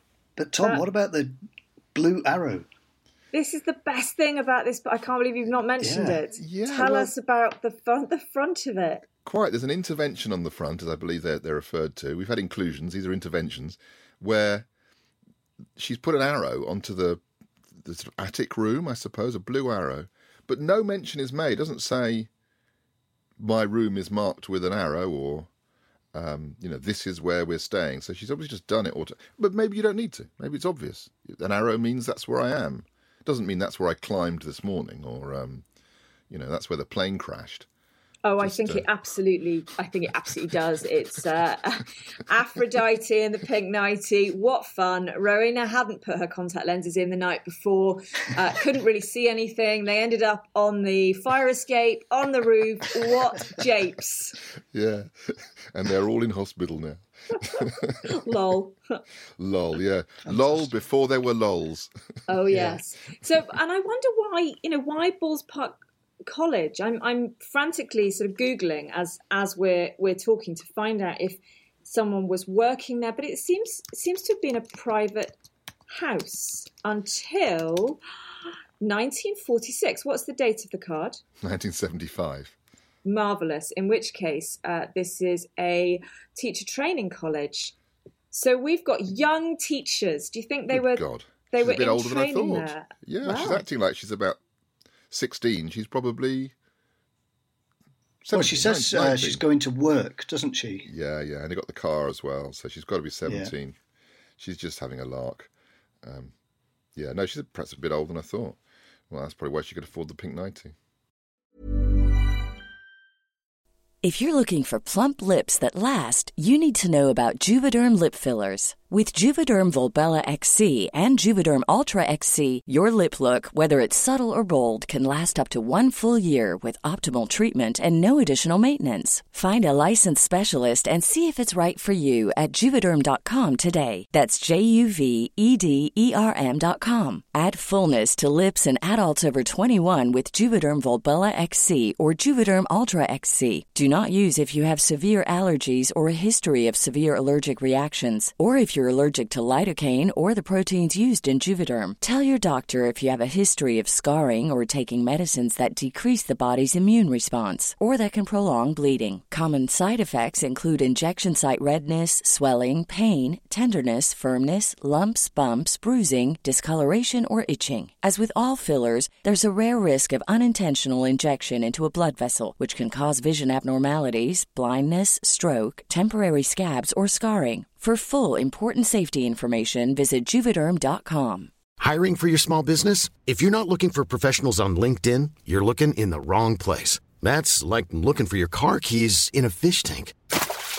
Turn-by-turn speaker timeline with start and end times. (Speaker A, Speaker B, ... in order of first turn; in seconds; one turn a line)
Speaker A: 0.4-1.4
Speaker A: 1.9-2.7
Speaker B: 3.3-9.0
Speaker A: 5.8-6.2
Speaker C: 6.4-7.1
Speaker C: 9.2-14.7
Speaker C: 15.8-17.2
Speaker C: 17.7-22.3
Speaker C: 23.4-25.5
Speaker C: 26.1-35.6
Speaker C: 36.3-37.7
Speaker B: 38.2-54.4
Speaker C: 38.4-38.8
Speaker C: 54.7-58.1
Speaker B: 57.3-59.0
Speaker C: 59.4-61.9
Speaker A: 60.3-60.6
Speaker B: 62.3-75.4
Speaker A: 62.5-62.8
Speaker B: 75.9-78.0
Speaker B: 78.8-81.2
Speaker C: 81.4-82.5
Speaker B: 83.0-87.7
Speaker B: 88.3-93.6
Speaker C: 90.7-94.4
Speaker C: 95.1-96.5
Speaker C: 98.2-99.4
Speaker A: 98.3-100.9
Speaker C: 100.9-103.8
Speaker A: 103.2-103.5
Speaker C: 104.4-105.5
Speaker C: 106.0-106.3
Speaker C: 107.0-108.6
Speaker C: 109.1-110.7
Speaker D: 114.0-181.5
Speaker E: 181.8-190.2